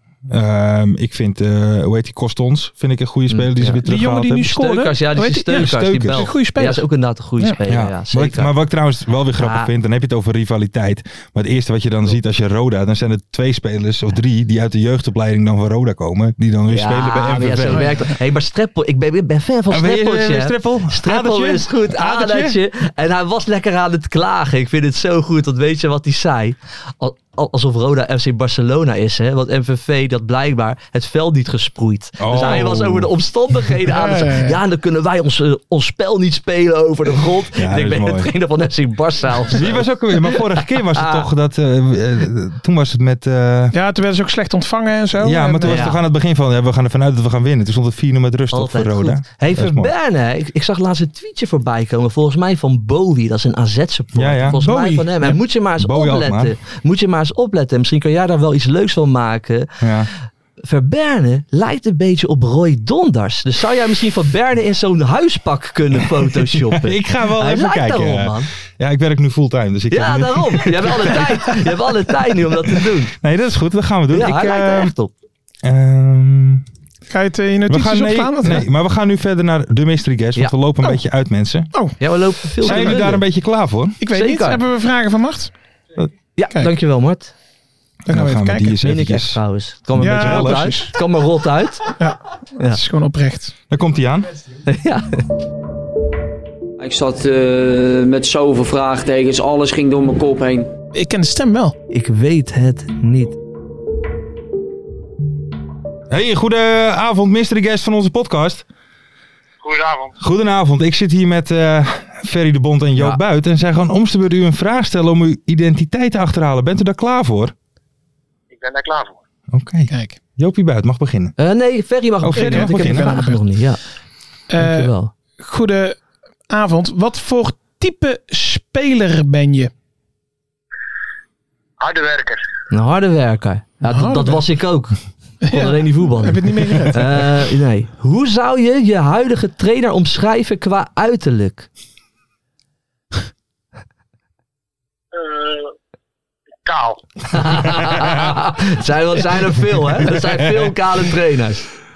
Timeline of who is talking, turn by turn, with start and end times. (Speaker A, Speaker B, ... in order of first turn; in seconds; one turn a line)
Speaker A: 0.3-4.5
Speaker B: 3.3-3.8
Speaker C: 3.8-6.8
Speaker B: 4.3-8.5
Speaker A: 5.5-6.3
Speaker A: 7.7-18.1
Speaker B: 9.4-9.7
Speaker B: 16.7-40.4
Speaker A: 19.7-22.6
Speaker A: 32.2-33.7
Speaker C: 33.9-34.6
Speaker A: 37.6-38.3
Speaker A: 39.5-43.8
Speaker B: 40.9-41.2
Speaker C: 43.7-45.9
Speaker A: 45.2-49.9
Speaker B: 45.6-46.0
Speaker B: 48.5-59.7
Speaker A: 54.1-56.5
Speaker A: 59.8-60.1
Speaker B: 60.6-68.5
Speaker A: 66.5-71.8
Speaker B: 69.9-73.1
Speaker A: 72.8-74.9
Speaker B: 74.1-75.1
Speaker A: 75.6-76.6
Speaker C: 77.1-78.7
Speaker A: 77.7-81.7
Speaker C: 81.7-82.0
Speaker B: 82.0-83.2
Speaker C: 82.6-83.1
Speaker A: 82.6-84.0
Speaker C: 84.0-85.5
Speaker B: 84.1-84.6
Speaker B: 86.3-87.3
Speaker C: 88.1-88.8
Speaker A: 88.1-89.4
Speaker B: 88.8-91.9
Speaker C: 90.0-90.9
Speaker A: 90.0-90.9
Speaker C: 92.0-93.5
Speaker A: 93.7-94.3
Speaker B: 94.7-95.2
Speaker D: 96.8-100.7
Speaker C: 100.9-101.8
Speaker B: 101.9-103.4
Speaker A: 106.1-108.6
Speaker E: 109.6-110.2
Speaker A: 110.2-117.5
Speaker E: 118.5-119.2
Speaker A: 119.5-121.3
Speaker C: 119.9-120.2
Speaker B: 121.4-123.8
Speaker A: 122.2-123.1
Speaker C: 122.3-123.4
Speaker C: 124.5-129.7
Speaker B: 124.6-125.1
Speaker E: 131.8-132.4
Speaker B: 132.7-135.0
Speaker C: 133.9-134.4
Speaker C: 135.4-137.3
Speaker B: 135.5-141.7
Speaker E: 145.1-145.7
Speaker E: 146.6-147.0
Speaker B: 147.3-151.7
Speaker A: 150.0-150.7